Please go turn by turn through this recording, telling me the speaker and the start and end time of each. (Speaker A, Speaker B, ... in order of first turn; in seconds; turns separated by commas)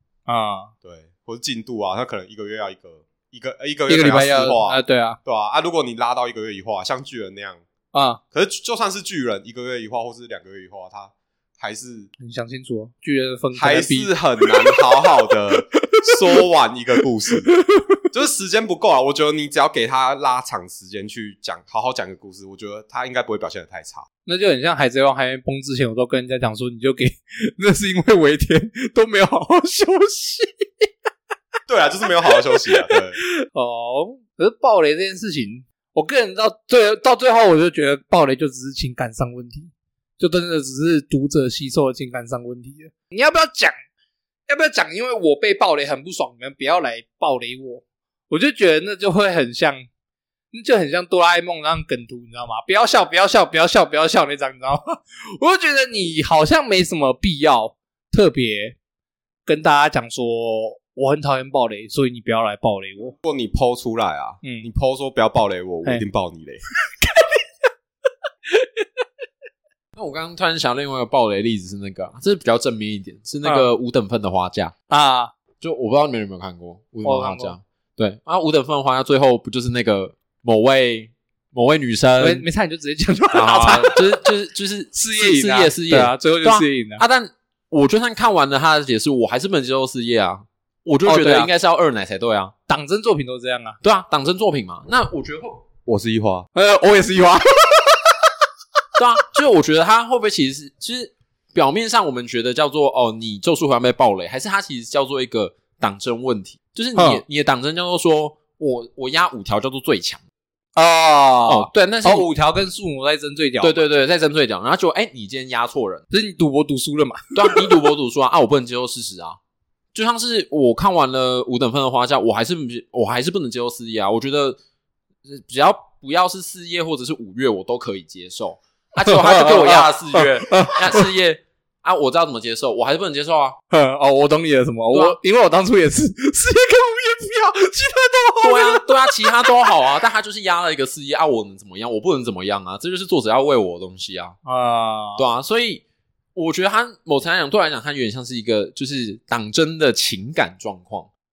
Speaker A: 0.3-0.7, Speaker B: 0.8-7.6, Speaker A: 3.9-5.2, Speaker A: 7.9-8.2, Speaker B: 8.3-12.1, Speaker A: 12.2-14.8, Speaker B: 13.5-17.5, Speaker A: 15.6-16.1, Speaker A: 17.5-18.0, Speaker B: 18.1-24.0, Speaker A: 24.2-30.9, Speaker B: 31.7-33.2, Speaker A: 32.7-43.7, Speaker A: 44.5-49.9, Speaker A: 50.5-58.8, Speaker A: 59.5-63.1, Speaker B: 63.2-66.6, Speaker A: 64.4-64.7, Speaker A: 66.9-67.5, Speaker A: 68.5-68.9, Speaker C: 69.9-74.7, Speaker A: 73.4-73.7, Speaker A: 74.9-75.3, Speaker C: 75.6-82.5, Speaker A: 77.0-77.5, Speaker A: 82.2-84.2, Speaker C: 83.3-92.5, Speaker A: 84.9-87.0, Speaker A: 91.0-91.5, Speaker A: 92.7-93.8, Speaker C: 93.8-95.7, Speaker B: 95.8-96.5, Speaker A: 96.5-98.1, Speaker C: 99.0-110.2, Speaker A: 107.0-107.2, Speaker A: 110.8-113.8, Speaker C: 111.5-112.3, Speaker C: 113.6-116.0, Speaker A: 116.1-117.8, Speaker C: 117.3-119.4, Speaker C: 119.9-124.6, Speaker C: 125.2-133.6, Speaker A: 129.0-131.1, Speaker A: 133.7-139.7, Speaker C: 134.9-135.2, Speaker C: 138.4-144.4, Speaker A: 144.4-145.2, Speaker C: 145.2-145.8, Speaker C: 146.3-151.1